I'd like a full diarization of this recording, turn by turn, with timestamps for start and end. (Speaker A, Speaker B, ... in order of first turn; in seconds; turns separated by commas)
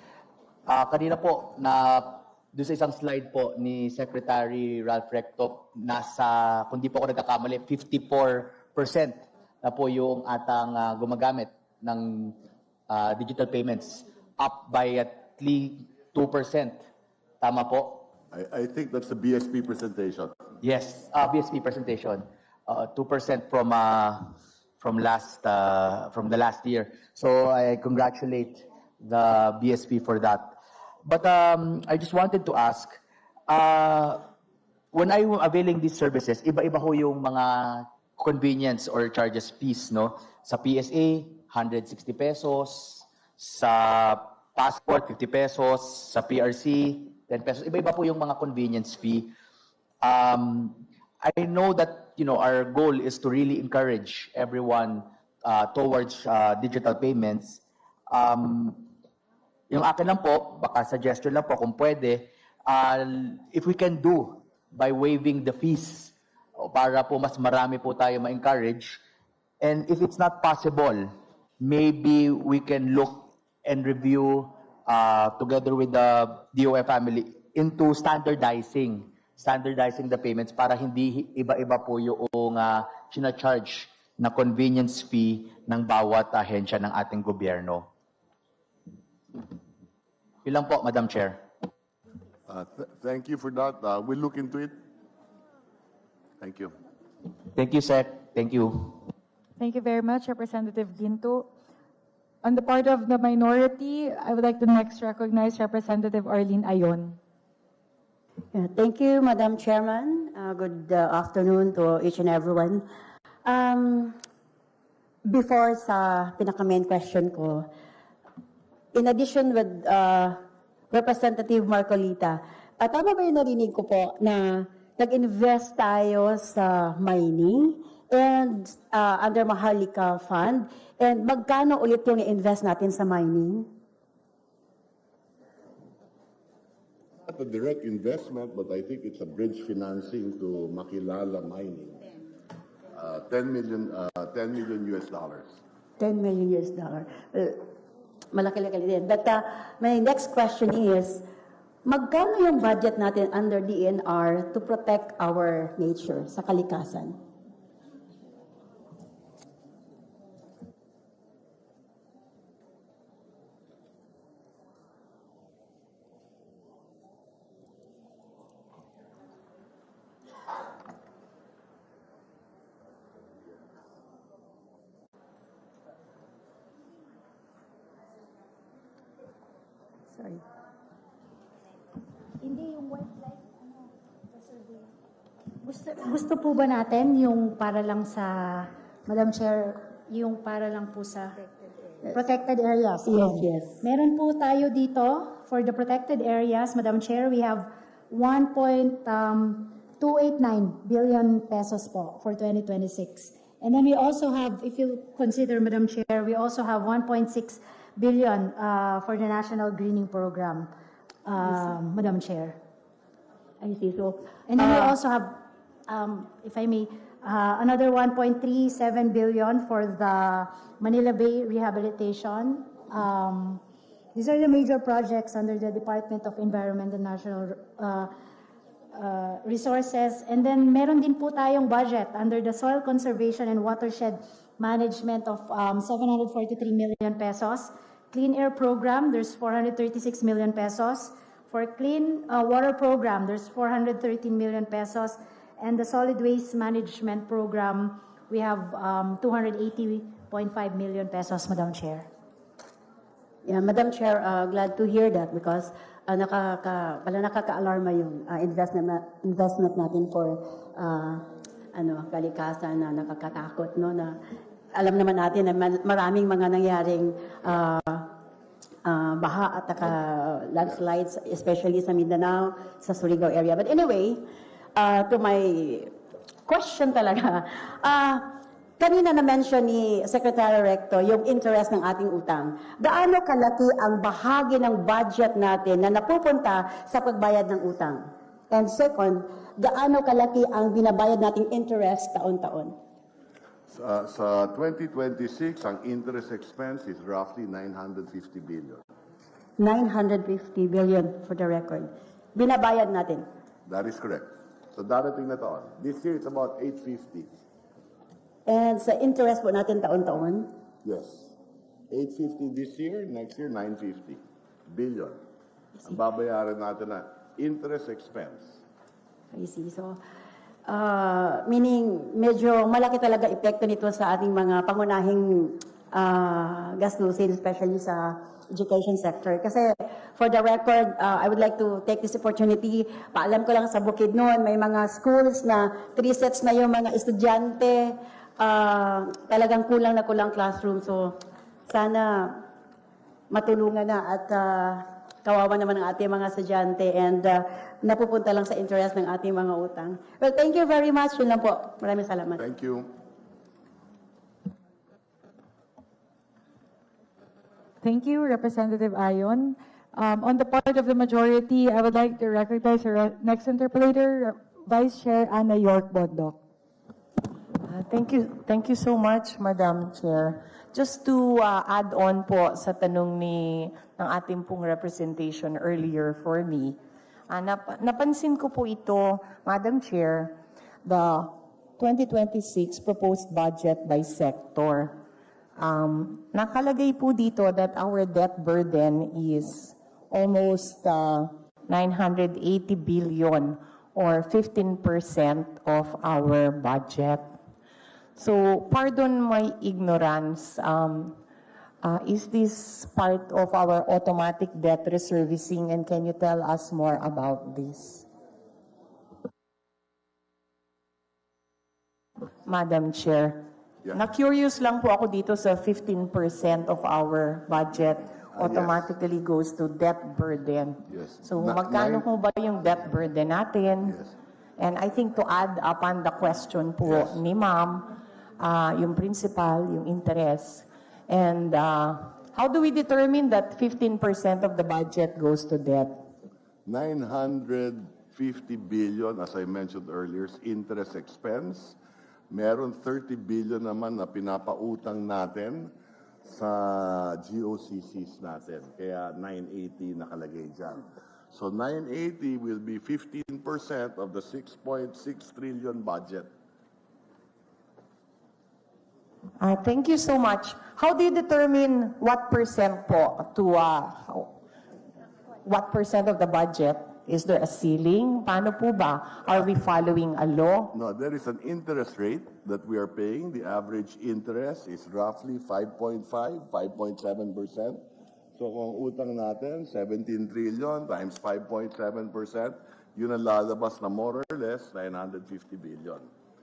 Speaker A: 0.7-16.9, Speaker A: 17.4-18.1, Speaker B: 18.3-20.3, Speaker A: 20.6-34.2, Speaker A: 34.9-49.3, Speaker A: 50.0-58.9, Speaker A: 59.7-69.0, Speaker A: 69.6-87.9, Speaker A: 90.4-91.4, Speaker B: 92.5-94.8, Speaker B: 96.4-96.7, Speaker A: 97.5-99.0, Speaker C: 99.6-101.5, Speaker C: 102.4-107.2, Speaker D: 108.5-112.8, Speaker D: 113.4-114.1, Speaker D: 115.3-117.7, Speaker D: 118.9-120.4, Speaker D: 120.9-133.7, Speaker B: 137.3-142.0, Speaker B: 142.9-145.6, Speaker D: 146.0-147.6, Speaker D: 148.3-151.2, Speaker D: 151.8-157.2, Speaker E: 182.4-183.3, Speaker E: 185.6-191.3, Speaker E: 192.1-210.7, Speaker D: 193.1-193.8, Speaker E: 211.2-212.6, Speaker D: 213.6-214.9, Speaker E: 214.5-223.6, Speaker E: 224.1-228.1, Speaker E: 228.9-252.1, Speaker D: 253.4-264.1, Speaker D: 264.7-268.1, Speaker D: 268.8-274.2, Speaker D: 274.8-275.9, Speaker D: 276.5-292.7, Speaker B: 293.7-298.8, Speaker D: 299.6-303.3, Speaker B: 303.6-307.3, Speaker D: 308.5-310.5, Speaker B: 310.8-311.3, Speaker B: 311.9-315.2, Speaker B: 315.9-318.6, Speaker D: 319.3-320.0, Speaker D: 320.7-341.1, Speaker D: 341.7-342.4, Speaker D: 343.3-352.4, Speaker B: 352.4-352.9, Speaker C: 357.8-366.4, Speaker F: 367.7-376.8, Speaker F: 377.3-385.0, Speaker F: 385.6-397.4, Speaker F: 398.1-401.2, Speaker F: 401.8-408.1, Speaker F: 412.4-424.0, Speaker B: 418.4-418.9, Speaker B: 420.9-422.1, Speaker F: 424.6-436.0, Speaker B: 426.8-427.1, Speaker B: 436.6-441.8, Speaker B: 442.3-445.7, Speaker B: 446.2-456.3, Speaker F: 459.4-464.3, Speaker F: 465.4-470.7, Speaker B: 470.7-477.8, Speaker B: 478.4-486.1